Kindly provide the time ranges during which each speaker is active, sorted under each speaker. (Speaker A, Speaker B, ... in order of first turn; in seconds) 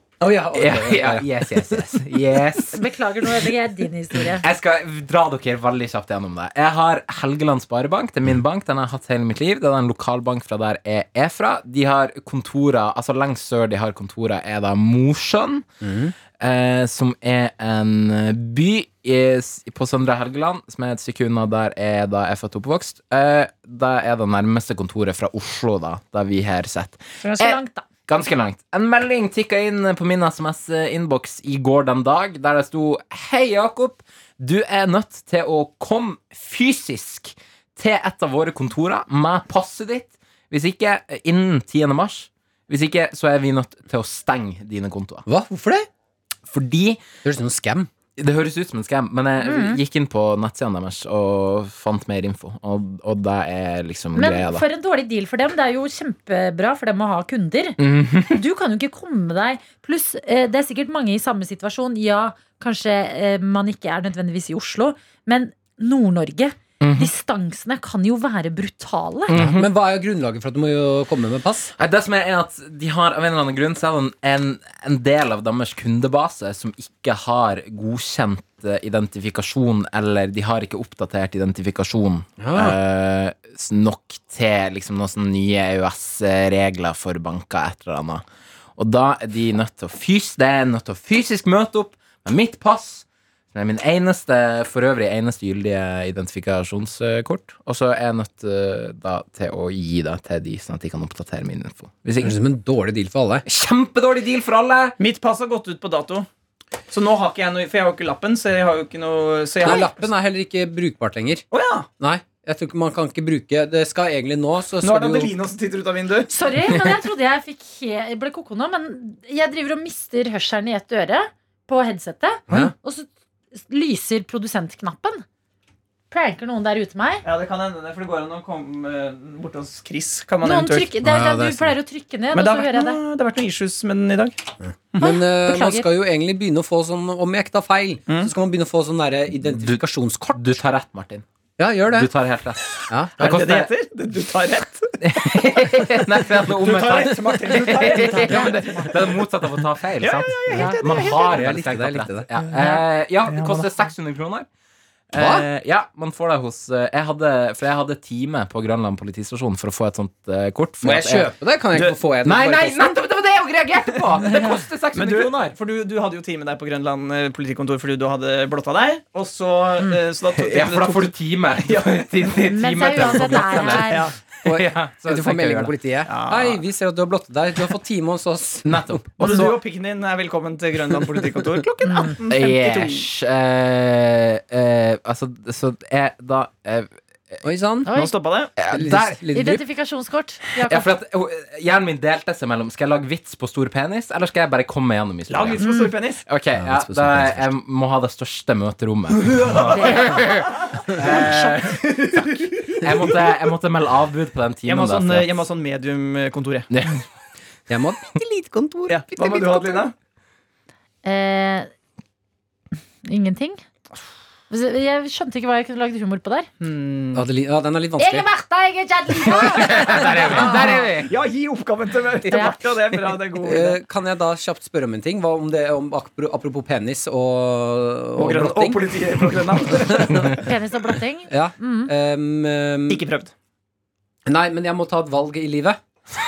Speaker A: 0.2-2.0, 15.8-16.1, 45.3-45.9, 47.2-47.9, 69.3-71.7, 82.4-82.8, 102.2-103.5, 109.6-111.5, 112.0-115.3, 131.0-131.7, 134.7-140.6, 141.6-142.1, 142.9-143.5, 150.6-152.3, 155.2-155.5, 160.8-163.0, 174.4-179.0, 187.4-187.9, 188.7-189.6, 196.6-197.5, 207.7-209.9, 217.1-218.3, 220.0-220.7, 223.4-230.4, 231.3-233.0, 234.3-235.8
Speaker B: 0.5-2.8, 4.4-15.7, 16.4-45.2, 46.5-47.0, 48.2-54.6, 57.8-58.4, 66.8-67.1, 69.3-69.7, 71.8-88.2, 88.8-102.3, 103.5-105.0, 140.3-141.2, 141.9-143.7, 145.0-154.5, 155.1-161.3, 162.2-165.6, 170.4-175.7, 178.7-179.6, 182.3-187.4, 188.6-189.2, 190.6-195.6, 196.3-205.3, 206.7-207.0, 219.3-221.1
Speaker C: 2.7-4.4, 27.2-27.9, 49.4-49.8, 54.1-69.3, 116.3-125.2, 126.1-127.2, 130.4-133.0, 135.0-135.9, 148.0-148.9, 150.5-150.8, 172.4-174.1, 181.8-182.2, 187.9-188.1, 189.3-190.9, 195.6-195.9, 199.7-200.5, 201.0-201.7, 211.0-211.7, 213.1-213.6, 214.5-216.5, 218.0-220.8, 222.3-222.6, 230.4-231.9
Speaker D: 105.0-106.3, 106.9-110.0, 111.5-111.9, 114.8-116.3, 127.2-130.9, 132.3-134.4, 138.1-138.3, 143.2-145.0, 146.5-149.2, 150.0-151.4, 153.3-153.7, 164.9-172.1, 173.7-174.2, 176.1-176.6, 179.2-183.1, 187.9-188.5, 195.3-196.2, 199.2-203.3, 204.7-206.7, 208.9-209.9, 216.6-217.2, 220.3-223.8, 228.2-230.5, 232.9-233.3